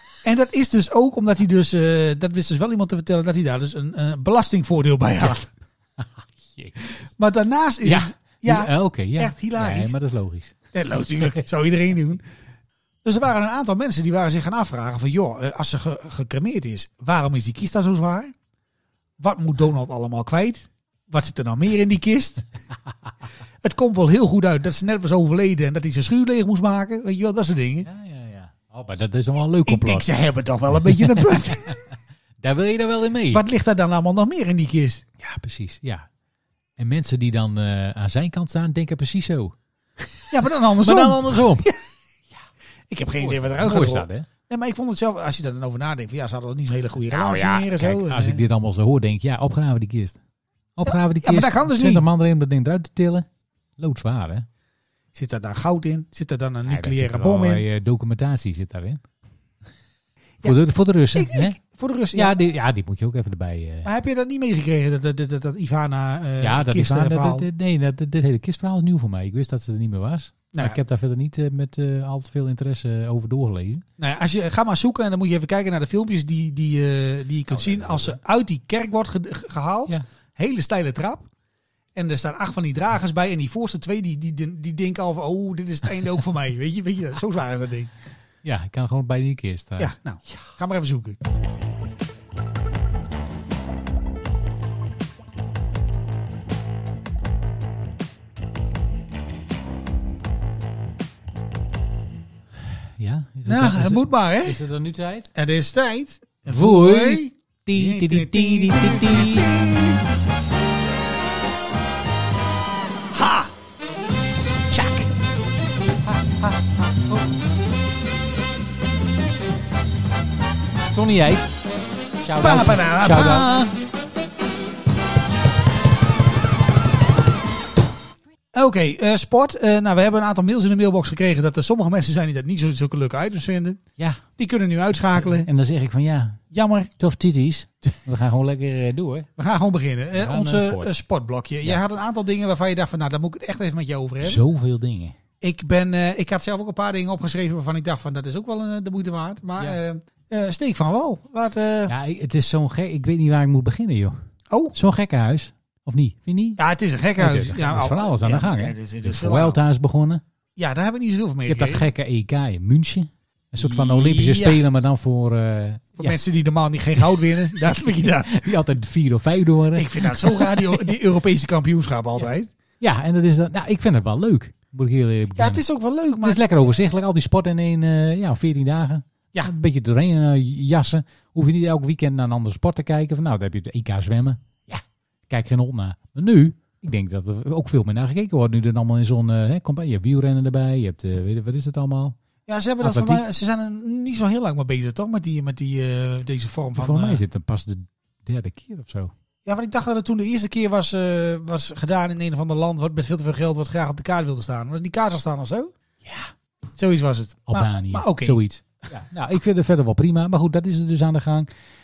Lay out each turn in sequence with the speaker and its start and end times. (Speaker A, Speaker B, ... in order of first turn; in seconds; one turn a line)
Speaker A: 0.2-5.5
Speaker B: 6.0-6.8
Speaker A: 7.0-9.9
Speaker B: 7.8-10.6
Speaker A: 10.7-12.2
Speaker A: 13.0-18.3
Speaker A: 19.2-22.5
Speaker A: 23.6-27.9
Speaker B: 27.9-30.1
Speaker A: 29.7-31.8
Speaker B: 30.9-33.4
Speaker A: 33.3-35.0
Speaker B: 35.2-36.1
Speaker B: 36.8-39.6
Speaker A: 40.3-41.8
Speaker B: 40.8-41.7
Speaker A: 42.9-48.4
Speaker B: 43.2-44.3
Speaker B: 47.1-50.2
Speaker B: 50.8-53.3
Speaker A: 50.9-52.0
Speaker B: 53.8-54.5
Speaker A: 55.1-57.6
Speaker B: 56.6-59.0
Speaker B: 60.4-61.6
Speaker A: 61.1-62.3
Speaker B: 62.1-63.9
Speaker A: 63.9-67.5
Speaker B: 66.4-73.8
Speaker A: 74.0-81.3
Speaker A: 82.0-87.9
Speaker B: 88.4-90.4
Speaker A: 89.8-91.2
Speaker B: 103.0-105.3
Speaker A: 103.5-104.6
Speaker A: 105.3-110.0
Speaker B: 106.5-109.5
Speaker A: 113.1-113.5
Speaker B: 114.7-115.1
Speaker B: 116.1-117.2
Speaker B: 120.9-121.5
Speaker B: 122.2-123.7
Speaker A: 122.4-123.5
Speaker A: 128.5-133.8
Speaker B: 134.0-134.2
Speaker A: 134.4-135.5
Speaker B: 135.2-136.4
Speaker A: 136.5-136.9
Speaker B: 137.0-139.3
Speaker A: 139.4-144.4
Speaker B: 140.1-140.9
Speaker B: 144.2-145.2
Speaker A: 145.4-151.9
Speaker B: 151.9-154.2
Speaker A: 154.5-154.8
Speaker B: 154.7-156.6
Speaker A: 156.6-159.6
Speaker B: 157.2-160.2
Speaker A: 160.6-161.8
Speaker B: 161.5-166.2
Speaker A: 163.6-164.6
Speaker A: 166.0-168.4
Speaker B: 167.6-170.9
Speaker A: 169.8-172.5
Speaker B: 172.8-175.6
Speaker A: 175.4-176.4
Speaker B: 176.2-192.2
Speaker A: 192.5-197.2
Speaker B: 192.8-193.2
Speaker B: 196.8-199.1
Speaker A: 199.4-205.7
Speaker B: 206.0-206.3
Speaker A: 206.8-208.4
Speaker B: 207.5-211.5